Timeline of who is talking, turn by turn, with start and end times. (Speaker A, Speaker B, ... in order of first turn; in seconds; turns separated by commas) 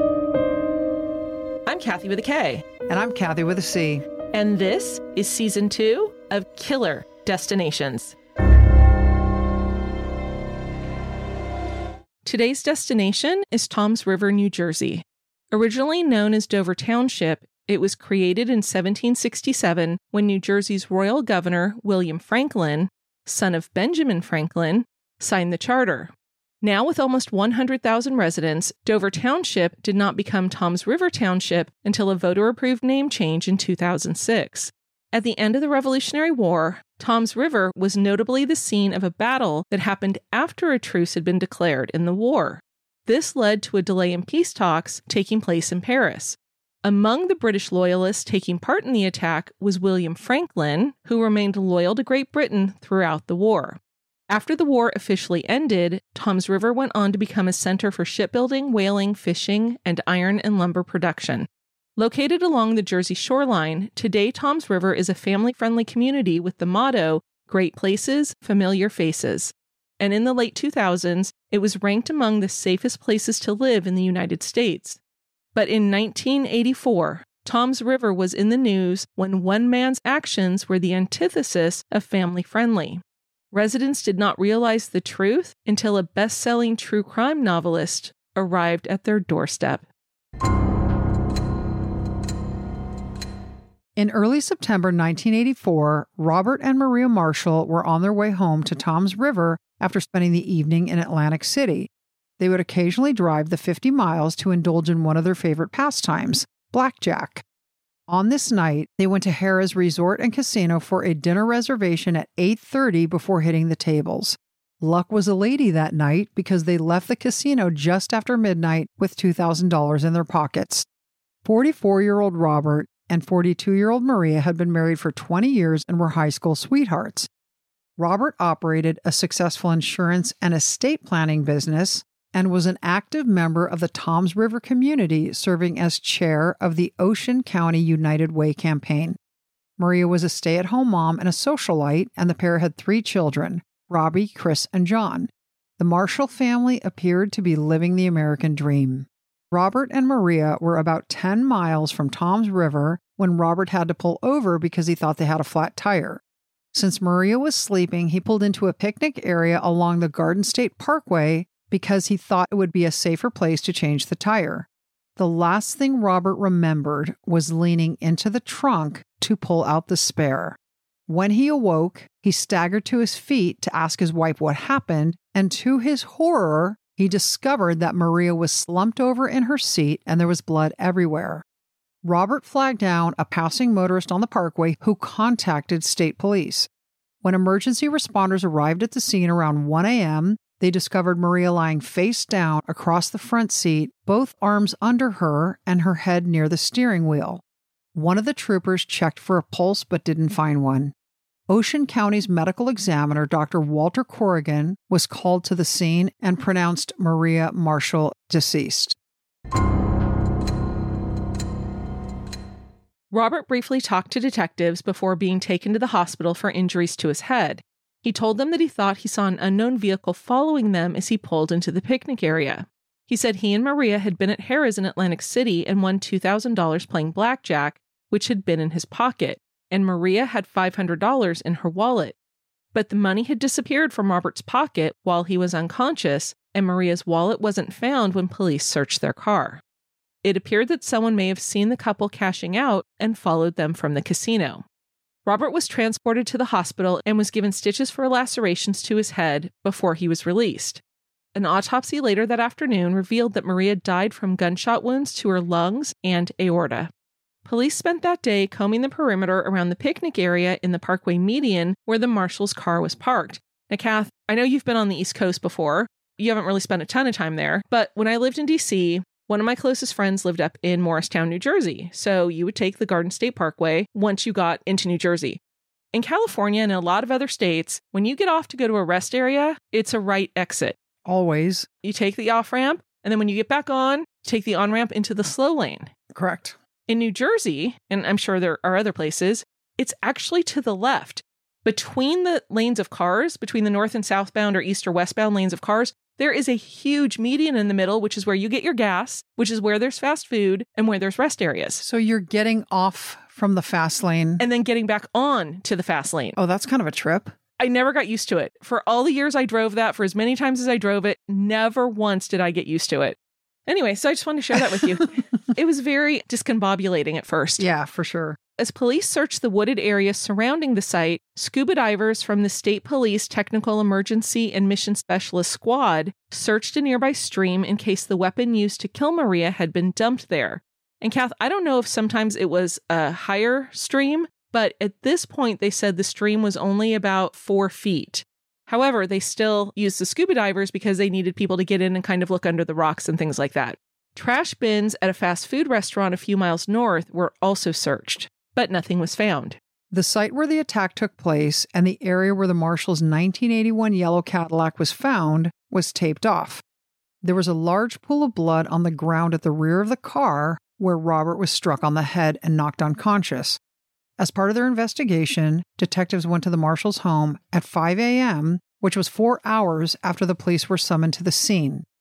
Speaker A: 1.6-2.6, Speaker B: 2.9-4.0, Speaker A: 4.3-8.1, Speaker A: 12.2-75.0, Speaker A: 75.5-89.8, Speaker B: 94.0-107.4, Speaker B: 108.1-120.9, Speaker B: 121.4-127.3, Speaker B: 128.0-139.2, Speaker B: 139.8-156.2, Speaker B: 156.7-181.4, Speaker B: 182.0-186.7, Speaker B: 187.2-197.4, Speaker B: 197.9-200.9, Speaker B: 201.5-209.0, Speaker A: 213.1-232.1, Speaker A: 232.7-239.6, Speaker A: 240.2-244.6, Speaker A: 245.2-250.8, Speaker A: 251.3-256.9, Speaker A: 257.4-275.4, Speaker A: 275.9-280.8, Speaker B: 281.0-281.7, Speaker A: 281.8-285.9, Speaker B: 286.1-286.6, Speaker A: 286.9-301.8, Speaker B: 301.8-304.4, Speaker A: 304.4-306.4, Speaker B: 306.4-307.4, Speaker A: 307.6-317.7, Speaker B: 317.6-318.4, Speaker A: 318.6-349.6, Speaker B: 349.9-356.6, Speaker B: 357.2-363.6, Speaker B: 364.2-371.9